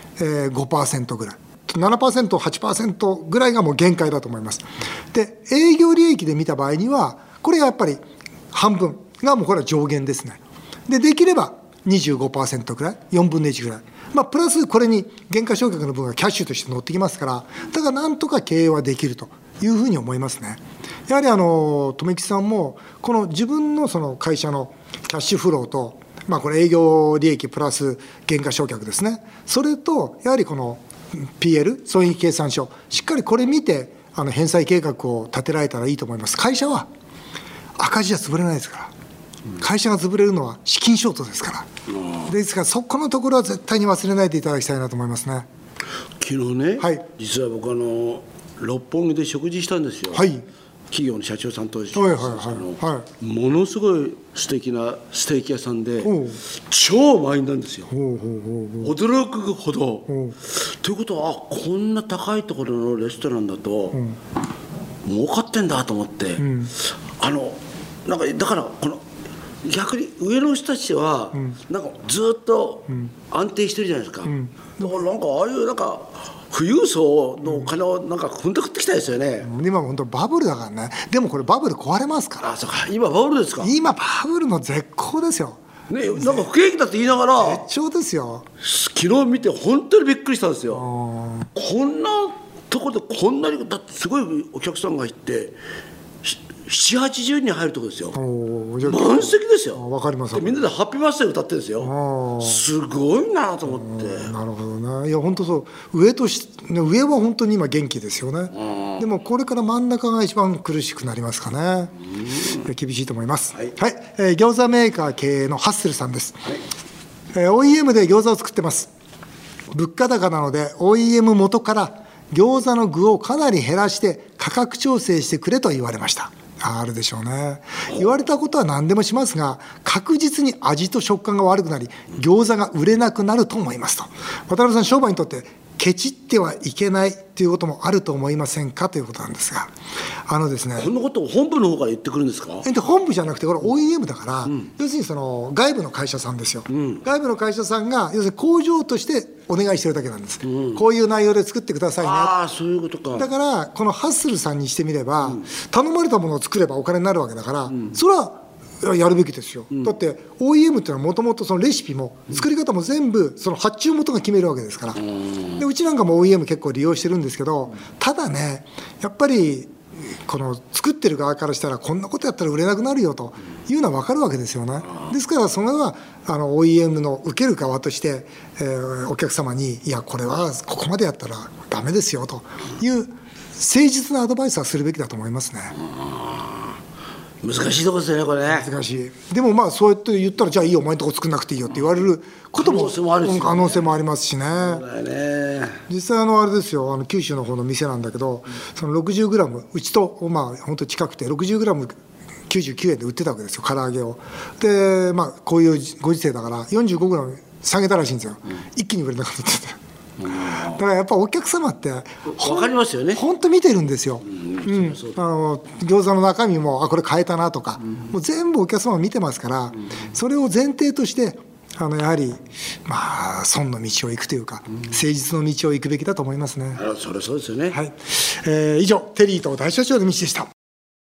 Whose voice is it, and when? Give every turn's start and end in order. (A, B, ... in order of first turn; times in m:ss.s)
0:00.2-0:36.9 A
0:37.8-0:38.9 A
0:39.6-0:41.7 A
0:41.9-0:42.2 B
0:42.3-0:45.5 A
0:46.2-0:50.3 B
0:50.1-0:50.4 A
0:50.9-0:57.9 B
0:51.9-0:53.1 A
0:56.0-0:56.4 A
0:57.9-0:59.0 A
0:58.8-1:04.0 B
1:00.1-1:00.4 A
1:03.9-1:04.2 A
1:05.0-1:06.5 B
1:06.4-1:06.7 A
1:07.2-1:09.0 B
1:09.6-1:19.5 B
1:14.2-1:14.9 A
1:17.4-1:17.7 A
1:19.4-1:22.5 A
1:22.4-1:23.7 B
1:23.6-1:25.6 A
1:25.9-1:27.6 B
1:26.2-1:26.5 A
1:27.4-1:28.5 A
1:28.6-1:30.9 B
1:30.7-1:31.5 A
1:31.6-1:35.6 B
1:36.2-1:38.2 B
1:38.1-1:40.7 A
1:38.8-1:39.8 B
1:40.3-1:44.3 B
1:41.8-1:42.7 A
1:43.7-1:56.6 A
1:48.6-1:49.0 B
1:57.3-1:58.9 A
1:59.7-2:19.7 A
2:20.3-2:20.9 A
2:20.8-2:22.7 B
2:22.6-2:32.3 A
2:26.7-2:27.0 B
2:30.5-2:30.8 B
2:32.0-2:33.3 B
2:33.2-2:45.0 A
2:45.0-2:45.6 B
2:45.6-3:05.8 A
3:05.8-3:06.8 B
3:07.4-3:08.7 B
3:08.5-3:14.8 A
3:12.6-3:13.9 B
3:14.6-3:15.8 B
3:15.9-3:46.8 A
3:30.2-3:30.8 B
3:32.3-3:33.2 B
3:34.3-3:35.2 B
3:46.8-3:47.8 B
3:47.7-3:50.5 A